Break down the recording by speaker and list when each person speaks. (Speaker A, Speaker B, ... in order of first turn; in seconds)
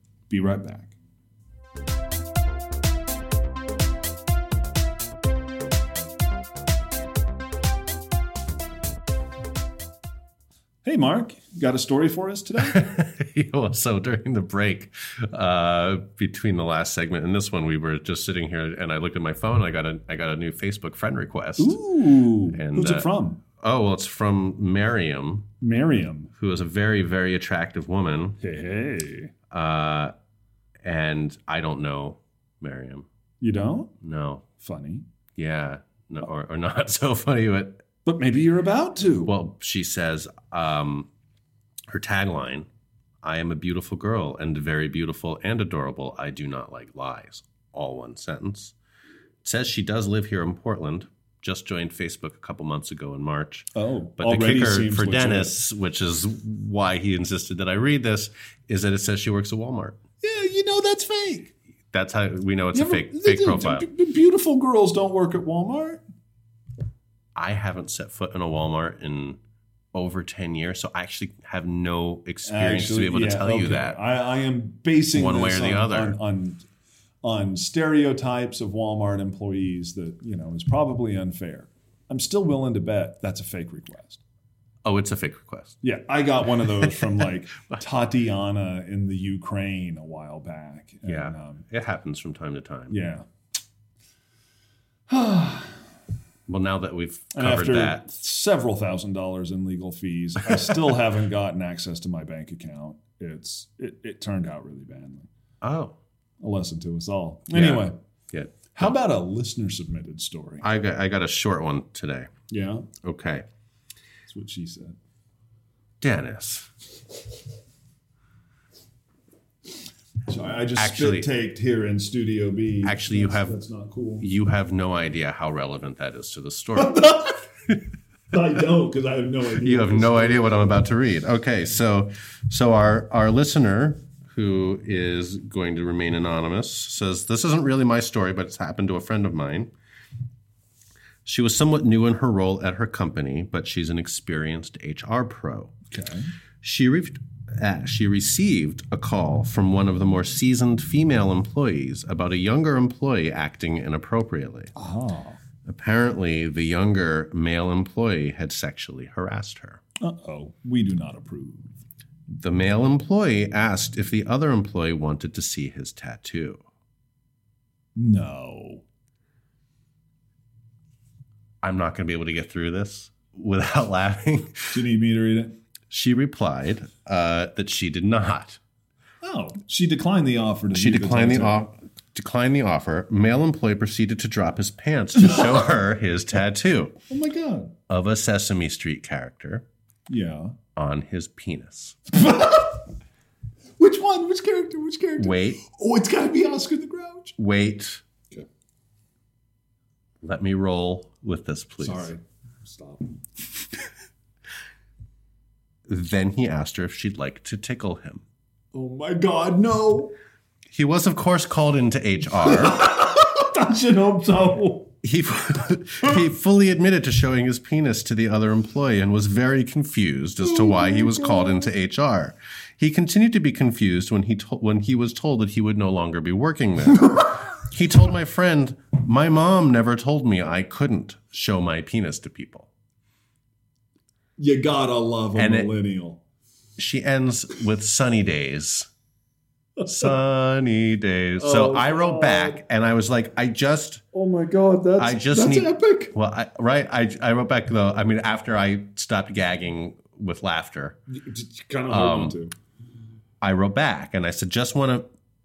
Speaker A: 0.3-0.9, 10.8-12.8, 21.6-23.4, 25.6-26.3, 28.4-29.3, 33.4-33.9, 34.6-35.0, 38.0-39.3, 53.7-55.5, 60.2-61.5, 62.7-66.0, 72.4-76.6, 77.2-84.2, 85.8-91.6, 92.9-93.2, 95.1-95.8, 97.3-105.3, 106.4-108.0, 108.7-110.7, 112.5-112.9, 114.2-115.0, 120.3-124.3, 126.8-127.4, 128.3-130.8, 145.9-146.3, 154.7-155.4, 160.0-161.8, 167.9-168.8, 174.7-175.6, 179.2-181.6, 187.1-187.7, 190.1-190.6, 192.1-192.8, 193.8-197.3, 201.8-203.1, 208.7-210.1, 212.3-214.9, 220.4-221.7, 234.4-236.2, 239.8-240.1, 241.4-242.6, 244.1-246.1, 251.1-252.5
Speaker B: 12.6-21.8, 22.5-25.5, 26.3-28.4, 29.5-30.1, 30.8-33.0, 34.0-34.5, 35.4-37.8, 39.2-41.1, 41.9-42.7, 43.2-48.7, 49.4-60.0, 61.9-63.9, 67.3-69.4, 69.9-74.0, 75.1-76.2, 84.8-85.8, 86.6-87.8, 91.0-93.0, 96.5-98.1, 100.5-100.9, 105.6-106.0, 107.5-108.9, 110.6-112.3, 113.0-113.4, 116.0-116.7, 120.8-121.3, 122.8-123.6, 124.2-127.0, 129.6-139.7, 141.2-145.7, 146.6-154.7, 155.6-159.8, 162.3-166.6, 171.6-174.8, 175.9-178.6, 180.7-187.0, 187.9-189.6, 190.8-192.0, 195.2-195.6, 197.4-198.0, 200.2-202.1, 205.9-208.2, 210.7-212.8, 215.0-232.7, 235.3-235.7, 236.8-238.9, 239.8-244.0, 245.0-251.0, 251.9-252.4, 253.4-255.1